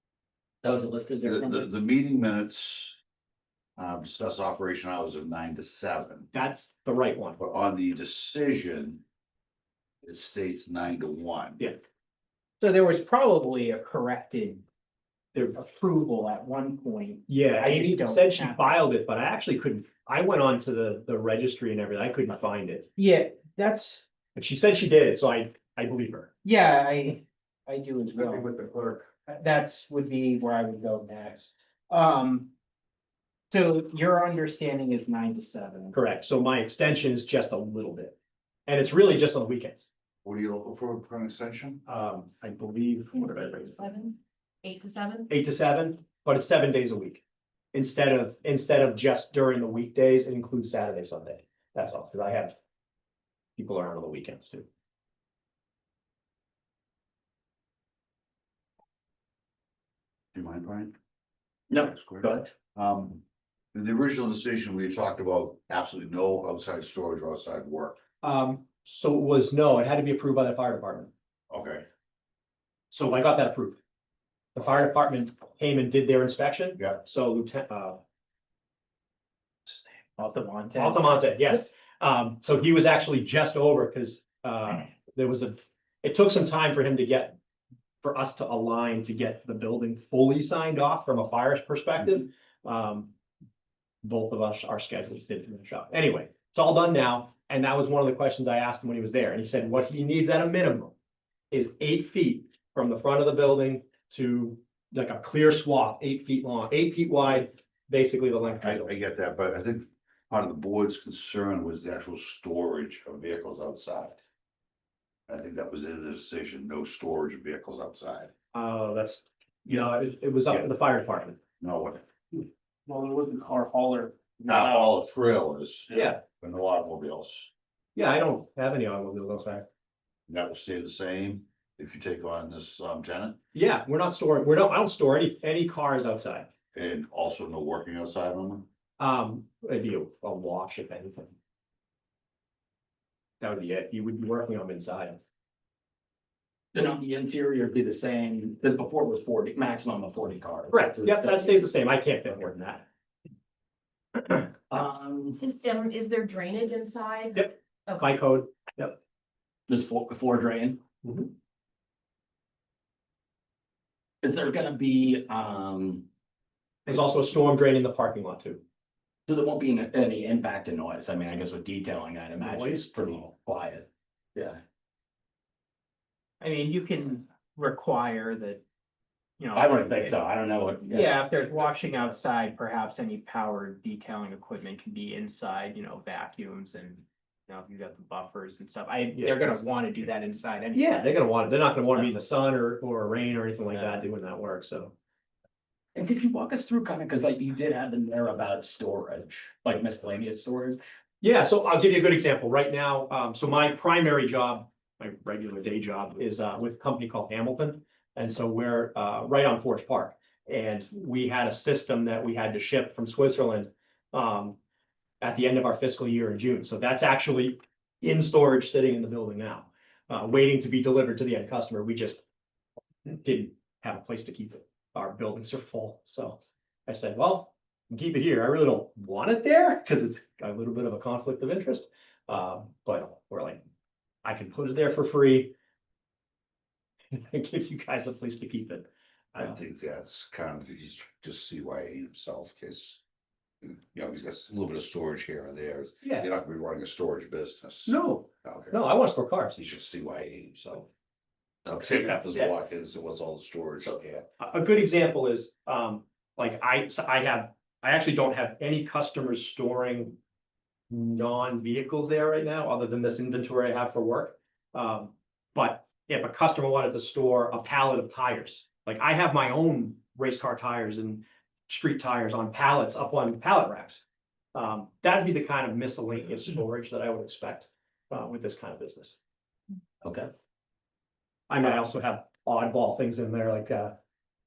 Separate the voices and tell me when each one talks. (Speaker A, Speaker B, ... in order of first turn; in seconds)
Speaker A: 0.6-1.7, 61.7-62.5, 122.3-124.9, 146.7-151.6, 154.3-155.4, 159.7-160.8, 164.2-166.1, 169.3-174.6, 179.5-181.1, 195.9-200.9, 251.7-252.1, 280.0-280.3
Speaker B: 1.2-3.0, 3.8-6.3, 7.4-9.0, 10.0-11.6, 40.2-41.8, 60.3-60.9, 61.8-63.2, 63.7-68.0, 71.5-71.8, 108.6-114.2, 115.3-118.3, 121.6-122.0, 124.5-127.5, 130.3-133.4, 136.7-138.7, 239.3-243.0, 243.6-248.8, 249.6-250.9, 251.8-254.3
Speaker C: 6.3-7.4, 17.3-22.9, 24.3-26.3, 35.9-38.1, 38.7-39.9, 41.9-44.1, 45.3-47.2, 47.7-52.5, 53.6-54.7, 68.2-71.1, 72.9-73.8, 74.5-78.0, 80.8-87.4, 88.0-93.1, 94.0-100.9, 101.5-108.9, 118.5-121.4, 125.9-126.2, 128.0-129.7, 133.5-136.5, 139.0-141.3, 143.4-145.2, 150.7-152.8, 157.4-158.9, 161.0-161.3, 166.8-168.6, 172.4-173.2, 189.2-189.6, 190.7-194.9, 201.2-214.6, 215.2-222.2, 223.1-233.6, 234.2-235.5, 237.1-238.9, 247.9-249.6, 254.4-260.2, 260.9-274.0, 274.5-279.2, 281.5-283.9
Speaker D: 12.6-14.6, 15.3-18.8, 23.0-24.1, 26.4-28.6, 29.2-32.5, 33.5-36.0, 80.2-81.3, 176.4-178.6, 179.4-180.2, 180.9-191.1
Speaker E: 43.1-45.3, 155.4-158.2